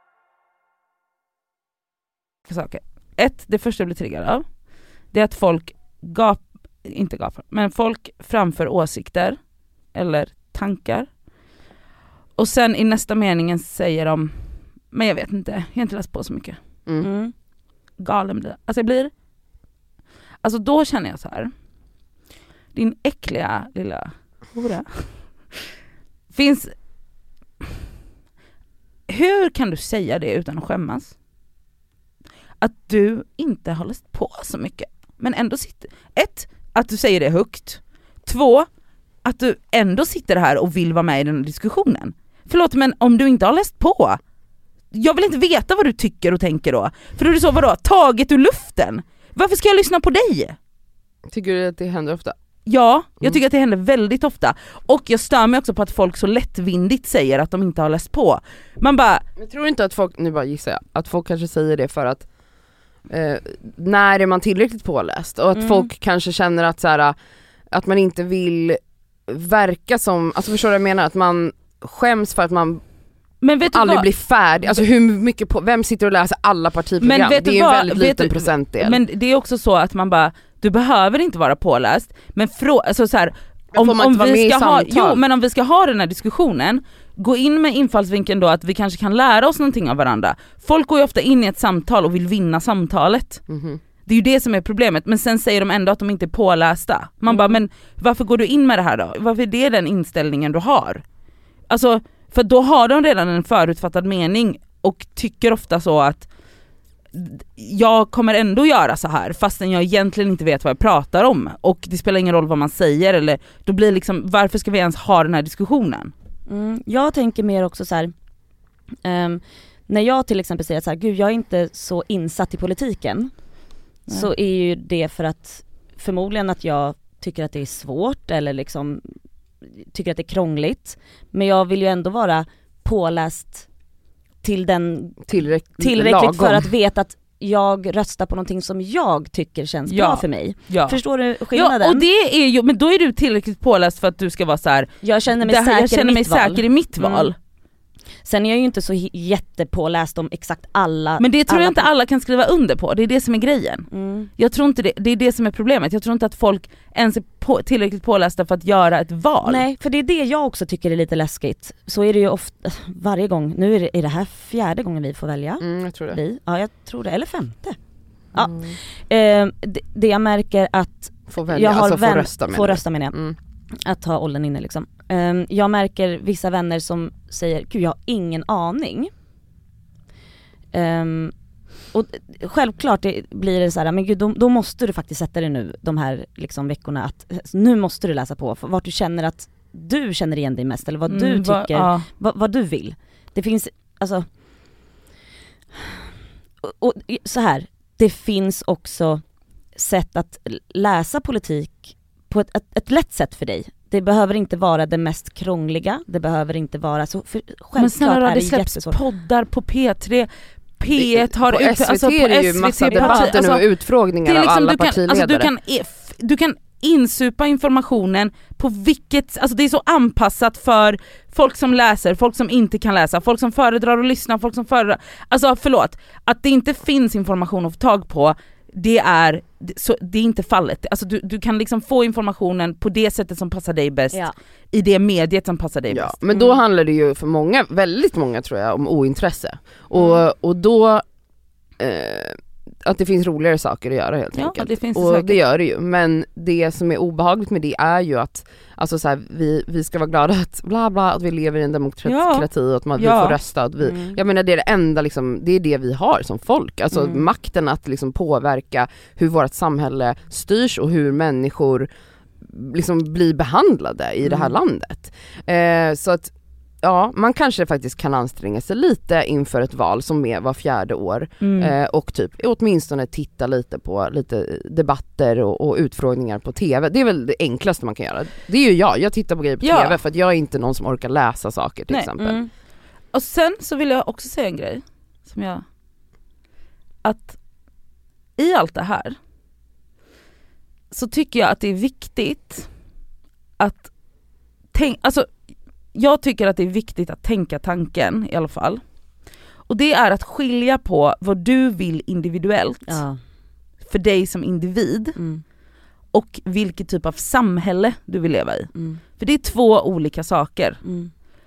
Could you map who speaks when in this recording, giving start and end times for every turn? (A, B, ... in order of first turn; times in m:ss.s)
0:02.5-0:04.4 A
0:05.1-0:09.4 A
0:09.9-0:11.1 A
0:12.4-0:14.3 A
0:14.9-0:16.6 A
0:17.0-0:17.3 B
0:18.0-0:19.1 A
0:20.4-0:21.5 A
0:22.7-0:25.6 A
0:26.3-0:26.7 A
0:29.1-0:31.1 A
0:32.6-0:38.7 A
0:39.2-0:44.2 A
0:44.9-0:50.6 A
0:51.3-0:52.4 C
0:52.6-0:59.2 A
0:59.4-1:02.2 C
1:03.1-1:07.2 C
1:05.6-1:05.9 B
1:07.7-1:12.8 C
1:13.4-1:14.1 A
1:13.7-1:19.0 C
1:17.0-1:33.4 A
1:23.7-1:25.2 C
1:33.5-1:33.8 C
1:34.0-1:41.0 A
1:41.7-1:46.3 A
1:47.1-1:56.1 A
1:56.5-1:58.1 B
1:59.0-2:03.3 B
2:04.1-2:09.0 B
2:09.8-2:13.7 B
2:14.4-2:22.0 B
2:15.2-2:16.7 C
2:19.9-2:21.0 A
2:21.5-2:27.4 A
2:25.0-2:27.3 B
2:28.2-2:31.9 B
2:31.2-2:39.6 A
2:33.9-2:34.3 B
2:39.4-2:47.8 B
2:45.6-2:46.2 C
2:48.3-2:53.1 B
2:48.4-2:48.7 C
2:51.3-2:53.4 C
2:53.8-2:59.1 B
3:00.7-3:01.3 B
3:01.9-3:14.2 B
3:11.1-3:12.0 A
3:16.6-3:19.2 B
3:19.8-3:29.0 B
3:27.8-3:30.3 A
3:30.8-3:33.6 A
3:30.9-3:35.5 C
3:32.9-3:33.4 B
3:34.2-3:56.1 A
3:55.9-4:01.0 C
4:01.8-4:21.9 C
4:04.4-4:05.4 A
4:12.0-4:13.4 A
4:13.8-4:14.2 B
4:16.9-4:17.2 B
4:22.4-4:42.4 C
4:31.4-4:31.7 A
4:39.6-4:40.0 A
4:41.9-4:42.1 A
4:42.2-4:42.5 B
4:43.1-4:45.6 A
4:47.0-4:47.4 A
4:48.4-4:49.2 A
4:50.9-4:52.7 A
4:53.6-4:53.9 A
4:54.7-4:55.3 A
4:55.9-4:58.8 A
4:59.7-5:03.0 A
5:02.9-5:03.2 B
5:03.9-5:05.2 A
5:05.2-5:05.4 B
5:06.1-5:10.8 A
5:08.7-5:09.0 B
5:10.8-5:11.1 B